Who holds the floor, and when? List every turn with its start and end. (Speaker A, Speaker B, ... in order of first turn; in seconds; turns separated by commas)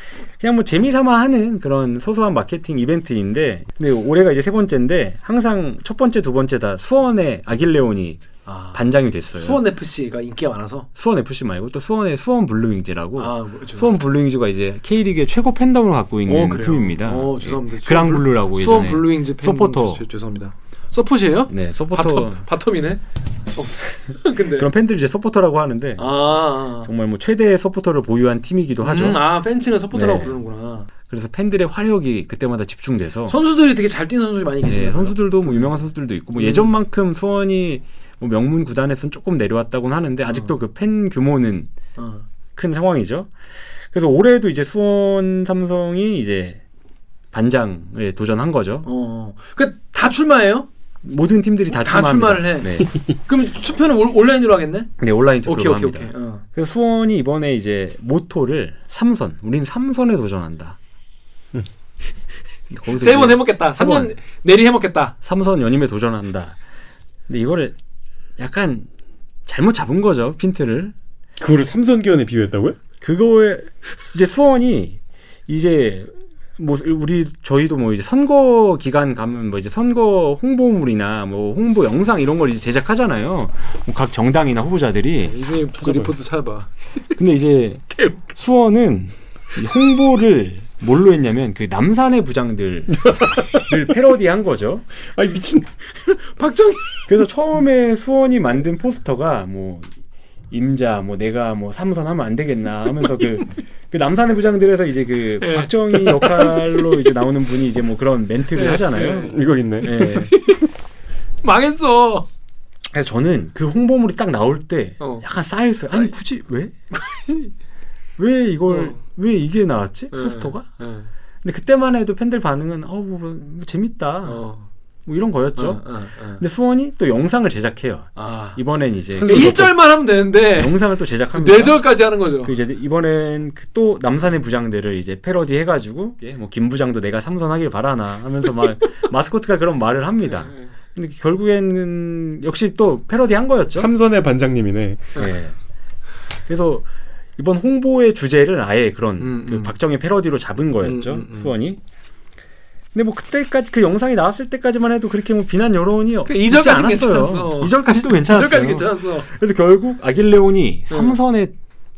Speaker A: 0.4-9.6, Speaker B: 8.4-10.9, Speaker A: 10.9-20.0, Speaker B: 13.2-13.9, Speaker B: 16.3-23.0, Speaker A: 21.5-22.4, Speaker B: 23.5-24.7, Speaker A: 24.3-29.2, Speaker B: 26.0-26.9, Speaker B: 28.8-30.9, Speaker A: 29.9-30.3, Speaker A: 31.1-33.4, Speaker B: 33.3-35.8, Speaker A: 34.6-41.7, Speaker B: 36.4-36.7, Speaker B: 40.2-40.5, Speaker B: 42.0-42.2, Speaker A: 42.5-43.3, Speaker A: 43.9-46.6, Speaker A: 47.3-48.9, Speaker B: 48.8-50.7, Speaker A: 51.0-52.9, Speaker B: 51.7-54.9, Speaker A: 55.0-60.8, Speaker B: 55.5-56.4, Speaker A: 62.7-64.1, Speaker B: 62.9-65.1, Speaker A: 65.2-66.6, Speaker A: 67.3-67.8, Speaker A: 68.4-68.9, Speaker A: 69.5-70.9, Speaker C: 71.4-72.8, Speaker A: 73.0-85.4, Speaker B: 85.3-86.7, Speaker C: 85.8-86.1, Speaker A: 87.2-87.8, Speaker B: 87.9-88.2, Speaker A: 88.3-94.8, Speaker C: 93.0-93.6, Speaker C: 95.1-95.7, Speaker B: 95.9-97.0, Speaker A: 97.1-99.9, Speaker A: 100.5-110.3, Speaker B: 105.4-107.1, Speaker B: 108.5-110.7, Speaker C: 109.3-110.1, Speaker B: 111.4-112.3, Speaker A: 112.9-116.7, Speaker B: 116.9-117.5, Speaker A: 118.2-120.7, Speaker B: 118.7-119.0, Speaker B: 120.1-121.1, Speaker A: 121.4-124.4, Speaker B: 124.2-124.7, Speaker A: 125.0-129.7, Speaker B: 125.5-126.4, Speaker B: 128.2-128.6, Speaker C: 129.1-129.7, Speaker B: 129.1-132.5, Speaker A: 130.5-131.8, Speaker A: 132.4-143.9, Speaker C: 143.7-145.1, Speaker A: 145.1-145.6, Speaker A: 146.5-146.8, Speaker A: 147.4-151.8, Speaker B: 149.2-149.7, Speaker B: 150.8-151.5, Speaker A: 152.9-161.5, Speaker B: 156.2-159.3, Speaker B: 160.9-161.2